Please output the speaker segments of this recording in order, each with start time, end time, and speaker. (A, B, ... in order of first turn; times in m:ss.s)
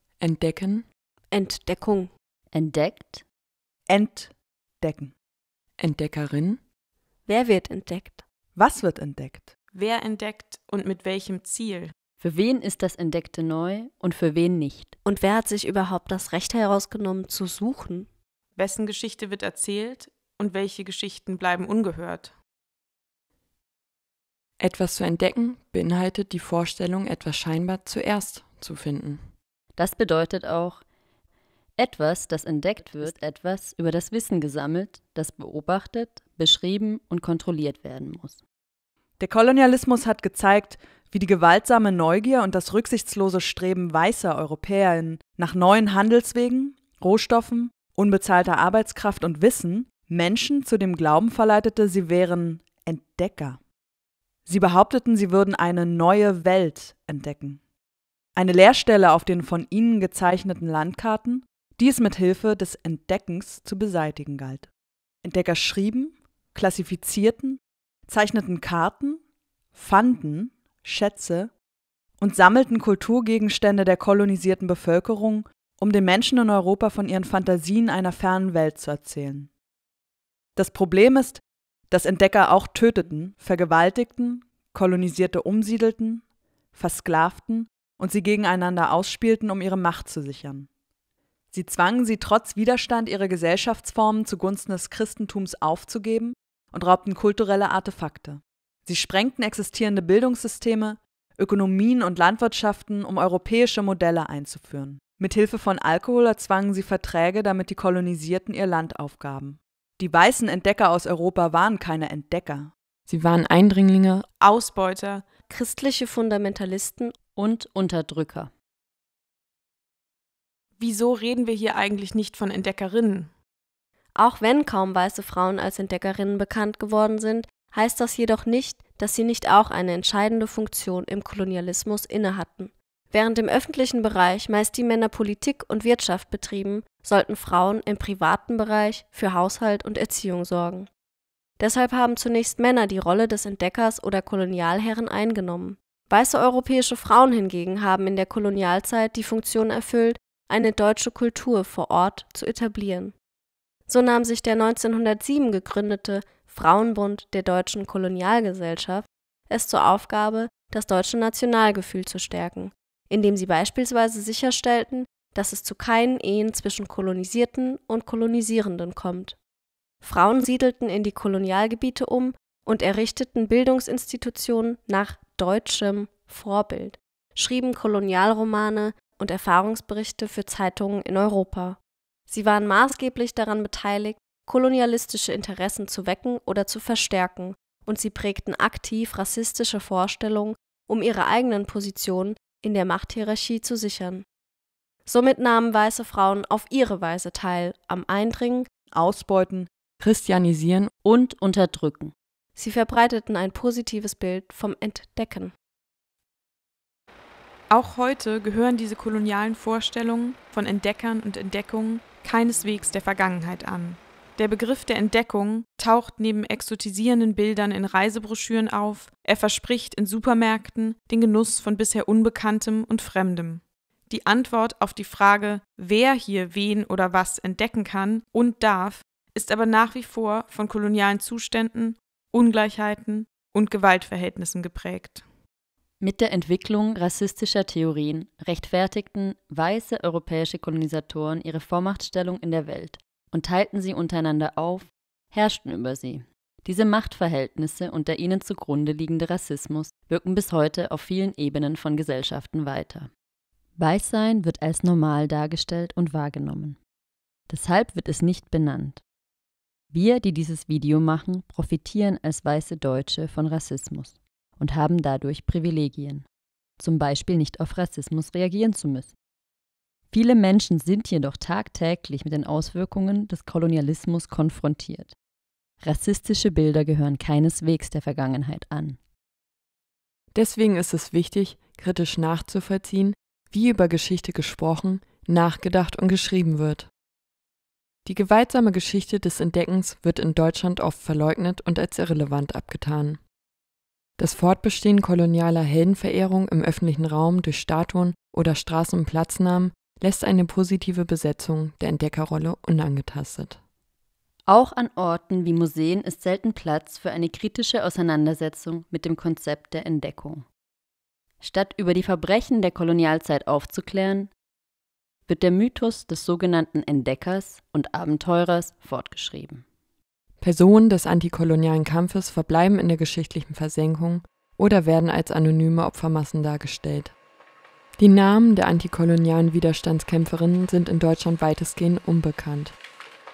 0:00.2-0:00.9 A
0:01.3-0:02.1 B
0:02.5-0:03.2 C
0:03.9-0:05.1 D
0:05.8-0:06.6 A
0:07.2-0:08.2 B
0:08.6-0:09.5 D
0:09.7-0:11.9 E
0:12.2-0:14.9 C
0:15.0-0:18.1 B
0:18.6-0:22.3 E
0:24.6-0:29.3 A
0:29.8-0:30.8 C
0:31.8-0:38.4 C
0:39.2-0:53.6 D
0:54.4-0:57.6 D
0:58.4-1:04.7 D
1:05.2-1:09.2 D
1:09.7-1:11.5 D
1:12.2-1:19.5 D
1:20.6-1:26.2 D
1:26.7-1:30.7 D
1:31.5-1:52.7 D
1:53.1-1:54.2 A
1:54.4-1:55.2 E
1:55.5-1:57.1 B
1:57.4-1:58.5 C
2:00.8-2:03.3 E
2:04.2-2:20.9 B
2:21.6-2:33.1 B
2:33.9-2:49.4 B
2:50.0-3:14.2 B
3:15.0-3:18.7 B
3:18.9-3:19.7 D
3:20.0-3:20.9 A
3:21.0-3:22.1 C
3:22.6-3:25.5 B
3:27.7-3:55.2 E
3:56.0-4:13.1 C
4:13.8-4:16.8 C
4:17.5-4:19.0 C
4:19.9-4:26.2 C
4:26.8-4:29.1 C
4:30.1-4:35.2 C
4:35.8-4:39.0 C
4:40.3-4:46.9 A
4:48.0-4:53.2 A
4:54.2-5:03.6 A
5:04.5-5:10.4 C
5:11.4-5:14.3 C
5:15.3-5:19.6 C
5:20.4-5:27.1 A
5:28.0-5:32.8 A